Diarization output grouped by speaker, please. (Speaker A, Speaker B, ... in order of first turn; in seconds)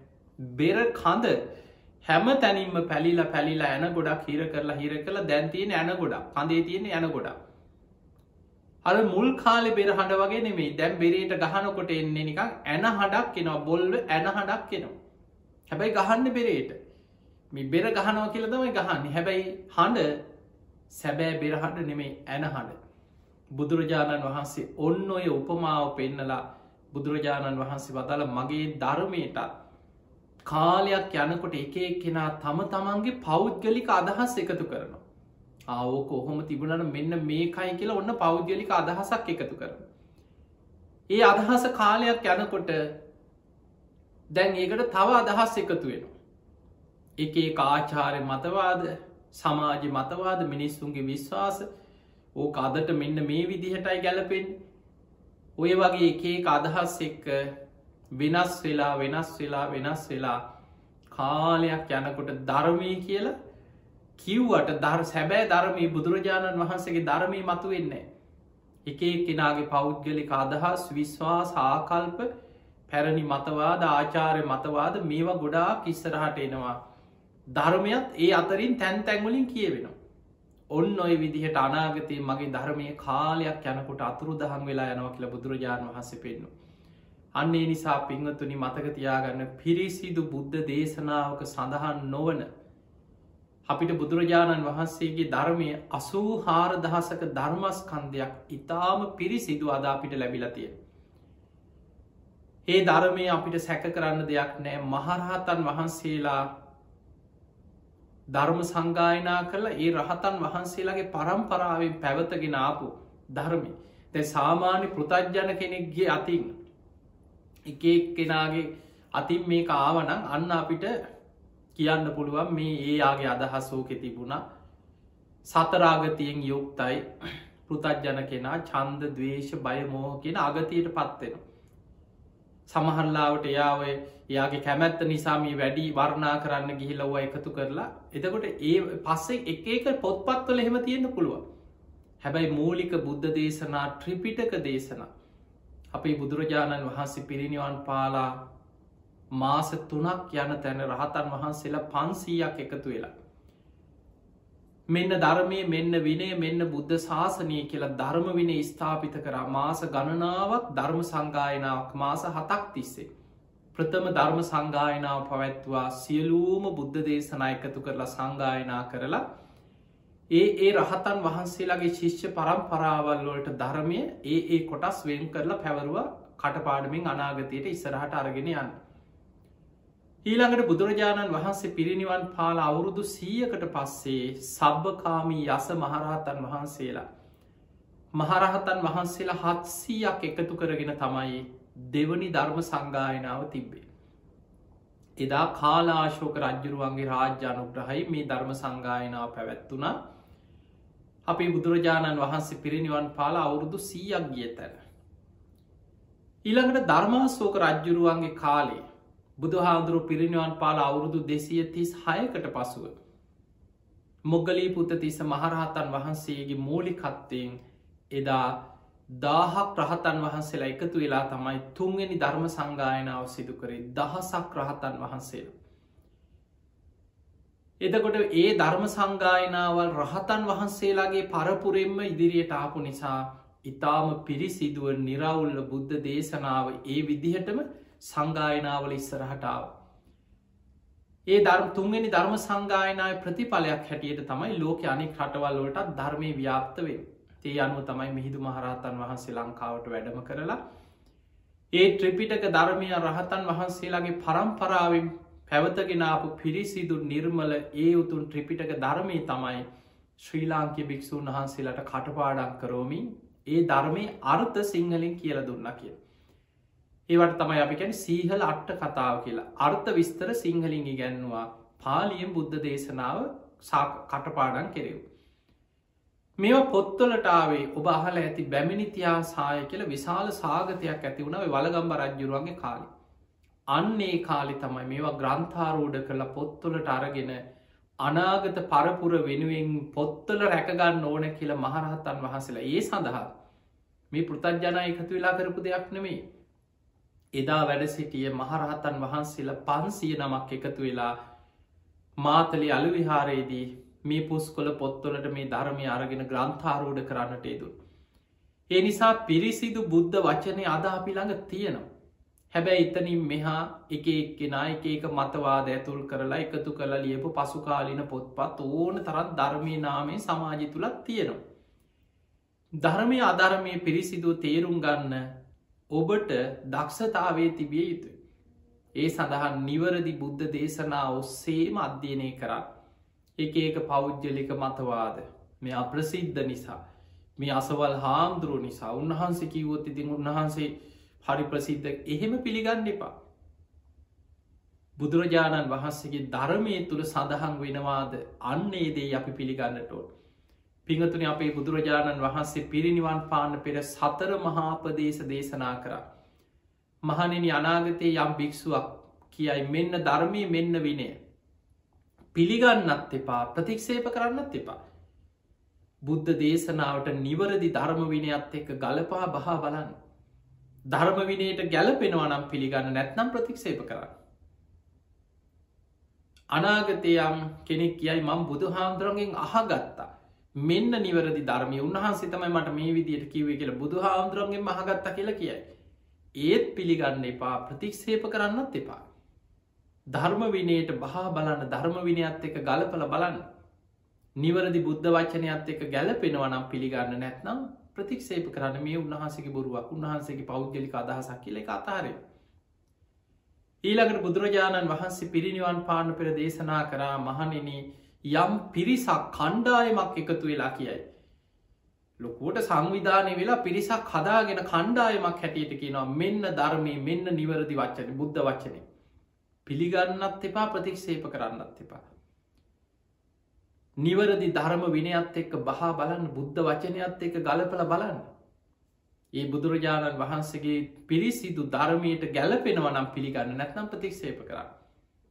Speaker A: 0.4-1.4, 2.0-7.3, 8.8-14.9, 15.7-16.8, 17.5-20.1, 20.9-22.8, 23.5-26.4, 26.9-29.5, 30.4-35.0, 35.7-39.8, 41.1-42.8, 44.3-46.1, 47.2-51.6, 52.4-54.5, 55.6-57.5, 58.1-60.4, 61.1-63.3, 64.2-68.0, 68.8-72.3, 72.9-76.8, 77.5-79.9, 80.7-86.5, 87.4-92.5, 93.7-100.7, 102.7-106.5, 108.3-116.5, 117.7-120.9, 121.7-124.4, 125.5-127.0, 127.7-131.4, 132.7-141.4, 142.2-145.1, 145.9-148.4, 149.3-153.1, 154.9-163.1, 163.7-169.2, 170.3-178.7, 180.2-187.0, 188.2-193.8, 195.2-199.9, 201.3-204.8, 206.4-208.8, 209.4-212.9, 214.3-217.6, 218.1-218.6, 219.1-225.5, 227.8-239.7, 241.3-250.6, 251.7-259.6, 260.2-266.0, 267.1-275.0, 276.4-282.9, 283.7-287.4, 288.0-293.3, 294.1-296.2, 297.3-301.1, 302.2-307.7, 308.7-311.8, 312.5-321.4, 322.8-325.3, 325.9-328.1, 329.0-332.6, 333.4-336.8, 337.4-340.7, 341.2-343.1, 345.0-350.1, 350.9-356.0, 357.0-361.1, 362.3-364.8, 366.0-369.9, 370.9-374.1, 376.5-380.1, 380.6-385.6, 386.4-389.0, 390.1-393.4, 394.4-402.2, 403.8-411.0, 412.2-418.8, 419.6-422.0, 424.0-428.2, 429.4-434.7